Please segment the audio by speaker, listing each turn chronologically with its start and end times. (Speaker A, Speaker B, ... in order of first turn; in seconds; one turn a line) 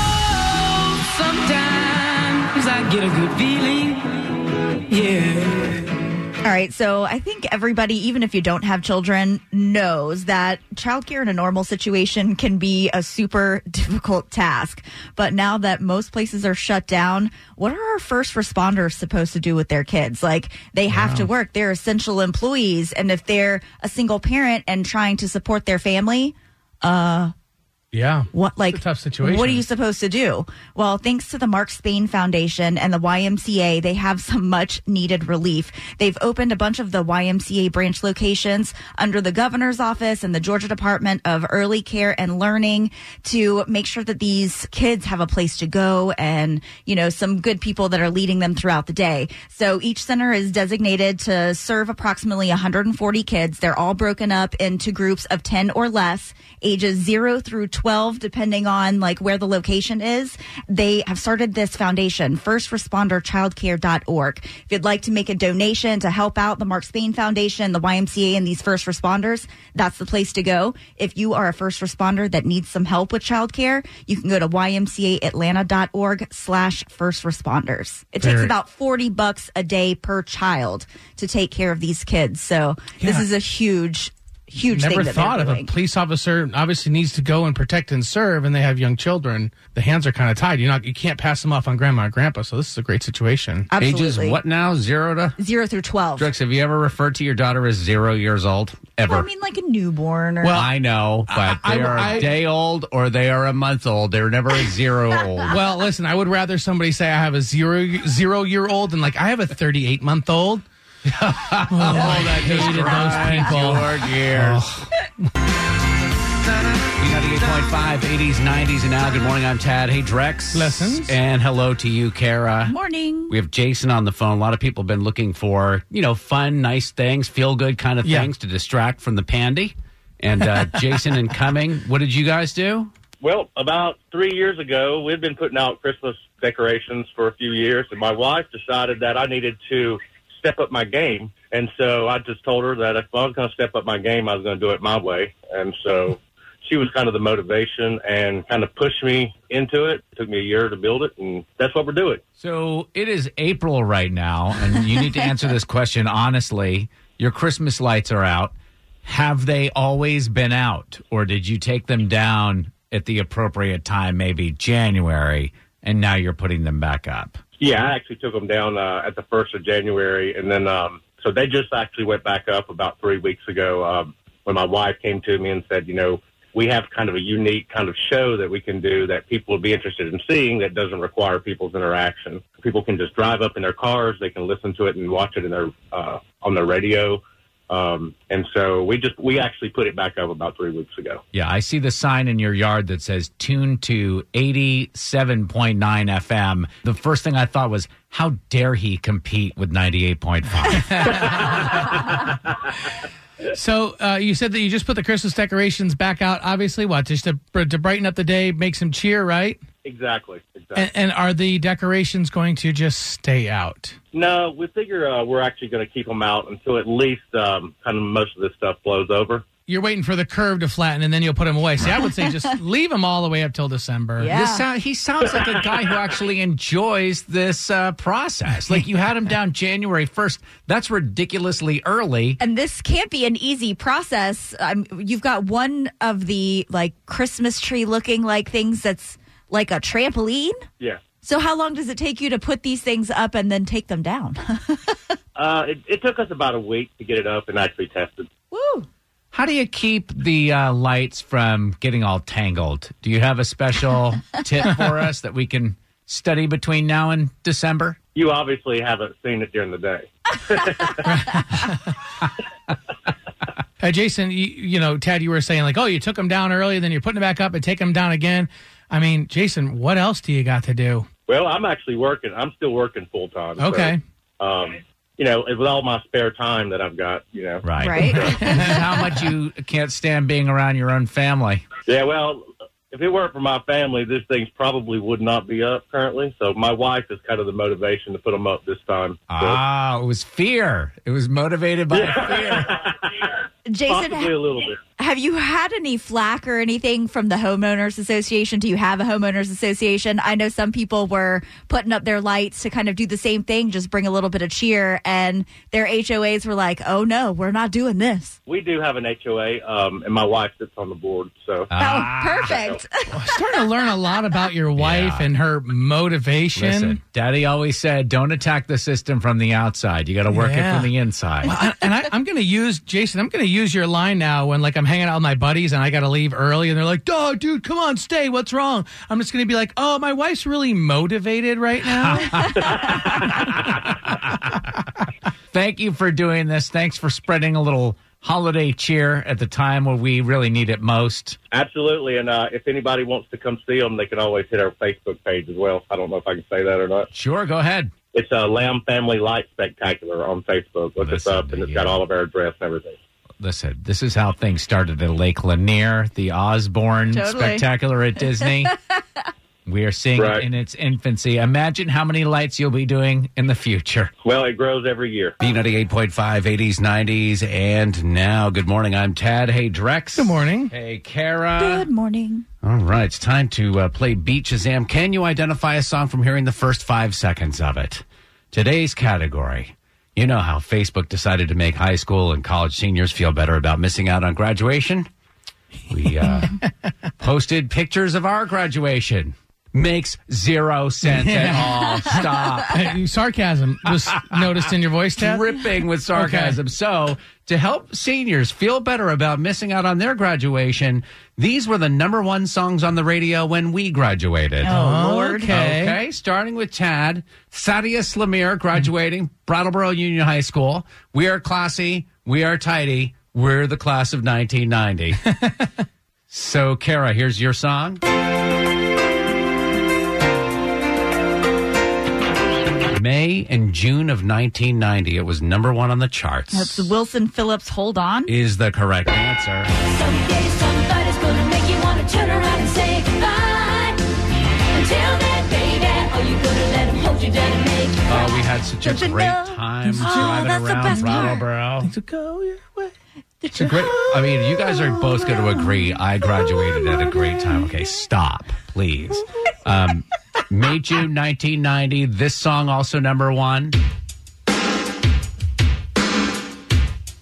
Speaker A: 1.2-4.0
Speaker A: 5.0-5.7
Speaker B: 6.4-27.3
Speaker C: 20.9-21.3
Speaker C: 27.9-29.6
Speaker B: 28.3-85.7
Speaker C: 78.2-78.5
Speaker C: 83.0-83.2
Speaker C: 84.7-93.7
Speaker B: 93.7-94.4
Speaker A: 93.8-95.4
Speaker B: 95.4-96.3
Speaker A: 96.2-99.3
Speaker B: 99.1-100.6
Speaker C: 100.4-100.7
Speaker A: 100.5-105.6
Speaker C: 101.3-102.3
Speaker C: 105.5-110.6
Speaker A: 111.1-114.7
Speaker C: 111.7-114.8
Speaker A: 117.0-122.7
Speaker C: 120.5-121.1
Speaker B: 122.7-123.3
Speaker A: 123.3-132.9
Speaker C: 128.0-128.3
Speaker D: 133.2-152.2
Speaker A: 152.4-167.4
Speaker D: 167.6-191.2
Speaker A: 191.3-201.0
Speaker C: 200.7-201.9
Speaker C: 203.4-209.6
Speaker D: 209.8-210.9
Speaker C: 210.8-214.0
Speaker D: 214.1-219.4
Speaker C: 219.7-224.3
Speaker B: 224.2-224.6
Speaker A: 224.3-232.4
Speaker B: 232.4-240.6
Speaker B: 241.2-245.0
Speaker D: 245.4-248.3
Speaker B: 248.5-248.9
Speaker A: 249.3-258.0
Speaker D: 258.1-261.2
Speaker C: 261.0-261.9
Speaker C: 263.8-271.1
Speaker D: 271.3-278.6
Speaker C: 273.6-274.0
Speaker A: 277.6-281.6
Speaker B: 277.8-278.2
Speaker C: 278.2-278.7
Speaker D: 281.9-289.6
Speaker A: 289.3-292.7
Speaker D: 291.9-293.3
Speaker B: 293.7-294.4
Speaker D: 293.9-294.8
Speaker B: 295.0-308.4
Speaker D: 308.5-311.7
Speaker A: 311.7-312.6
Speaker B: 311.8-314.0
Speaker C: 313.1-317.0
Speaker A: 314.8-315.3
Speaker A: 316.5-321.5
Speaker C: 320.3-320.9
Speaker C: 321.5-332.7
Speaker A: 331.9-332.5
Speaker D: 332.6-333.4
Speaker A: 333.6-334.3
Speaker A: 335.5-341.4
Speaker D: 341.5-347.1
Speaker A: 347.1-347.9
Speaker D: 348.1-353.0
Speaker A: 351.0-352.0
Speaker A: 353.4-358.7
Speaker B: 357.1-357.6
Speaker A: 359.6-364.1
Speaker D: 360.2-360.4
Speaker D: 364.2-365.4
Speaker A: 365.4-371.9
Speaker C: 370.1-370.7
Speaker B: 371.6-372.5
Speaker A: 372.6-385.1
Speaker A: 385.9-386.6
Speaker A: 387.2-392.9
Speaker C: 391.0-392.1
Speaker C: 392.7-395.5
Speaker A: 394.1-394.6
Speaker A: 395.2-404.8
Speaker C: 396.0-396.6
Speaker B: 404.6-405.5
Speaker C: 404.7-406.0
Speaker A: 405.5-415.3
Speaker A: 416.3-418.0
Speaker A: 422.9-426.9
Speaker B: 426.5-428.3
Speaker A: 428.3-429.7
Speaker E: 431.2-434.0
Speaker E: 435.0-437.6
Speaker A: 438.1-441.9
Speaker B: 438.8-441.4
Speaker C: 439.9-442.9
Speaker B: 443.4-443.8
Speaker C: 443.6-444.6
Speaker A: 443.6-453.8
Speaker B: 444.6-445.9
Speaker B: 446.5-447.2